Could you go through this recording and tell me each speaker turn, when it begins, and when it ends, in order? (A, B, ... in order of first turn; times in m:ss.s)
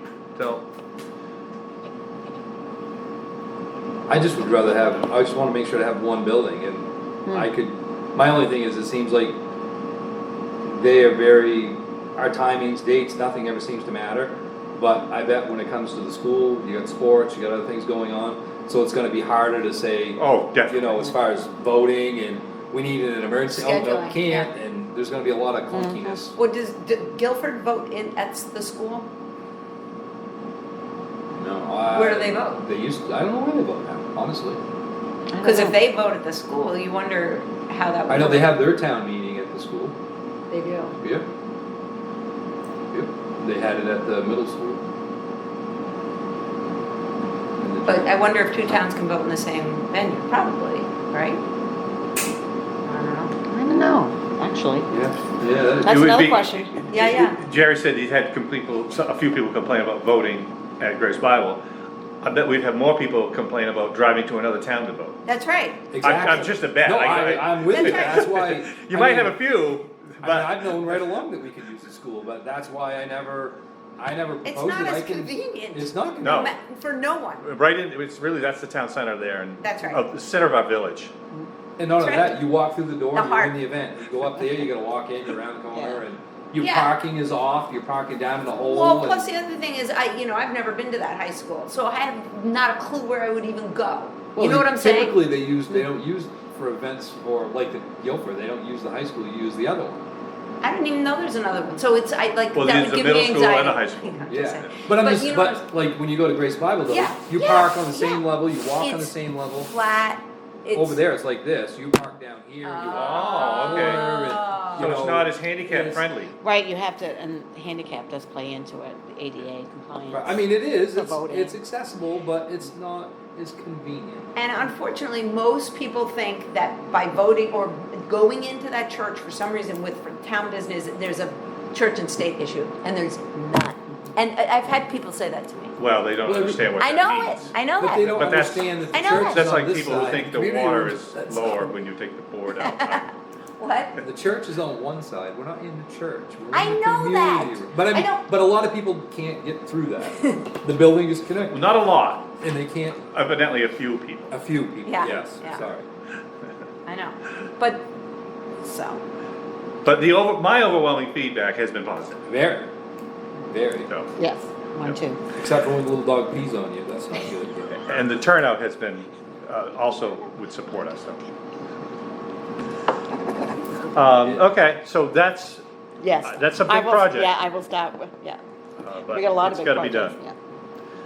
0:00.4-0:00.6 A
0:04.1-0:09.4 B
0:10.6-0:26.4 B
0:20.2-0:20.9 A
0:23.6-0:24.5 C
0:25.7-0:26.2 D
0:26.4-0:29.1 C
0:31.4-0:34.6 B
0:31.9-0:32.6 C
0:35.3-0:35.8 D
0:35.4-0:38.6 C
0:38.1-0:40.0 B
0:40.5-0:41.0 C
0:41.0-0:41.3 B
0:42.9-0:44.8 B
0:47.6-0:48.2 B
0:47.9-0:51.4 C
0:52.8-0:53.4 C
0:53.4-0:54.9 D
0:54.9-0:56.1 B
0:55.8-0:56.7 D
0:55.8-1:01.6 A
0:56.9-0:57.4 C
1:02.2-1:05.2 A
1:05.3-1:05.8 C
1:05.9-1:09.4 B
1:06.0-1:11.1 A
1:07.7-1:08.3 C
1:10.2-1:16.5 B
1:14.4-1:17.4 C
1:16.2-1:16.5 A
1:17.4-1:21.1 A
1:19.6-1:20.0 C
1:21.8-1:29.3 B
1:22.0-1:22.4 C
1:23.1-1:23.6 C
1:25.7-1:26.0 D
1:26.6-1:26.9 C
1:28.6-1:35.2 C
1:34.4-1:40.1 B
1:40.6-1:45.6 C
1:42.5-1:44.3 A
1:44.3-1:49.7 B
1:46.9-1:48.3 C
1:48.8-1:51.0 C
1:50.7-1:56.1 B
1:52.6-1:54.9 C
1:52.8-1:54.1 A
1:54.8-1:56.3 A
1:56.4-2:01.6 D
2:00.1-2:04.3 B
2:04.4-2:15.8 C
2:15.8-2:23.1 A
2:16.2-2:16.7 B
2:16.8-2:19.5 C
2:17.8-2:21.7 B
2:22.6-2:23.0 C
2:23.6-2:24.0 C
2:24.0-2:31.6 B
2:26.5-2:28.3 C
2:31.5-2:32.3 A
2:32.4-2:33.0 B
2:33.1-2:34.4 A
2:34.3-2:35.9 B
2:34.8-2:35.7 C
2:36.9-2:37.8 C
2:38.6-2:39.0 C
2:39.8-2:42.2 A
2:42.3-2:42.7 B
2:43.5-2:43.9 B
2:44.2-2:45.2 D
2:45.3-2:47.8 B
2:47.8-2:51.2 A
2:53.9-2:55.6 A
2:54.2-2:54.5 B
2:56.0-2:58.4 D
2:56.2-2:57.4 A
2:58.8-3:00.2 A
2:59.1-3:00.4 D